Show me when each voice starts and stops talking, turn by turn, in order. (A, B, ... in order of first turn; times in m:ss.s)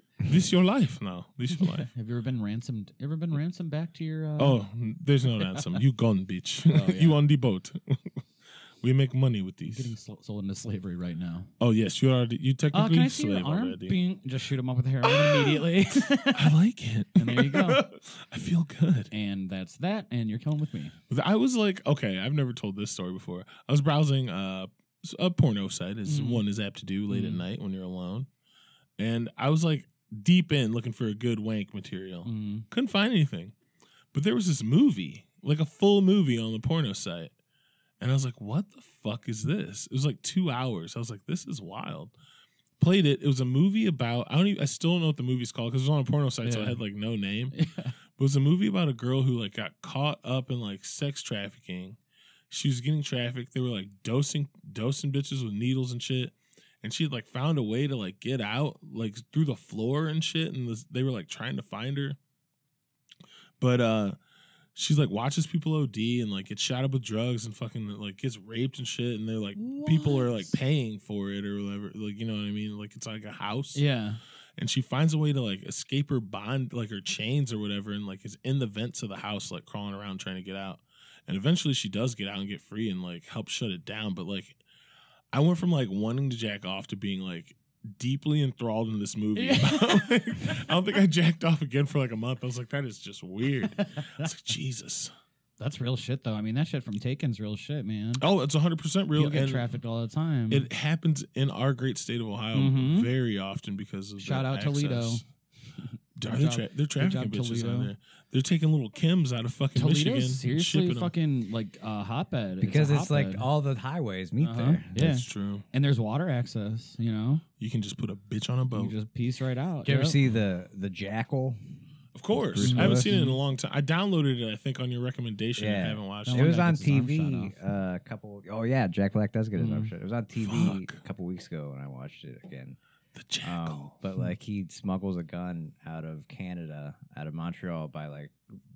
0:00.2-0:01.9 A
0:01.6-0:04.6 B
0:04.4-0:08.2 A
0:06.7-0:07.2 B
0:08.8-0:09.9 A
0:09.6-0:11.5 B
0:11.6-0:14.0 A
0:12.7-0:16.5 B
0:15.0-0:19.1 A
0:17.2-0:17.8 B
0:19.1-0:20.9 B
0:21.1-0:28.3 A
0:26.0-0:26.4 B
0:27.1-0:27.4 B
0:29.0-0:33.5 A
0:32.2-0:32.6 B
0:34.1-0:37.3 A
0:38.0-0:42.1 A
0:42.8-0:47.6 A
0:46.4-0:46.8 B
0:47.5-0:47.9 B
0:48.2-0:52.0 A
0:52.5-1:02.2 A
1:03.6-1:04.2 A
1:04.7-1:13.8 A
1:09.6-1:10.5 B
1:13.7-1:14.2 B
1:14.6-1:24.6 A
1:25.3-1:35.1 A
1:29.4-1:30.6 B
1:33.7-1:34.3 B
1:35.6-1:38.2 B
1:38.2-1:39.7 A
1:39.1-1:40.7 B
1:40.5-1:45.2 A
1:42.5-1:43.1 B
1:44.2-1:45.2 B
1:45.8-1:47.9 B
1:46.2-1:51.1 A
1:49.7-1:53.5 B
1:52.6-1:54.9 C
1:54.4-1:57.4 B
1:54.9-1:55.6 A
1:57.6-1:59.0 A
1:58.7-2:00.2 B
1:59.8-2:01.6 C
2:02.1-2:06.5 A
2:02.3-2:03.2 C
2:02.6-2:03.4 B
2:05.6-2:12.8 C
2:06.2-2:07.5 B
2:09.6-2:09.9 B
2:10.4-2:11.0 A
2:13.1-2:14.0 A
2:13.4-2:18.3 C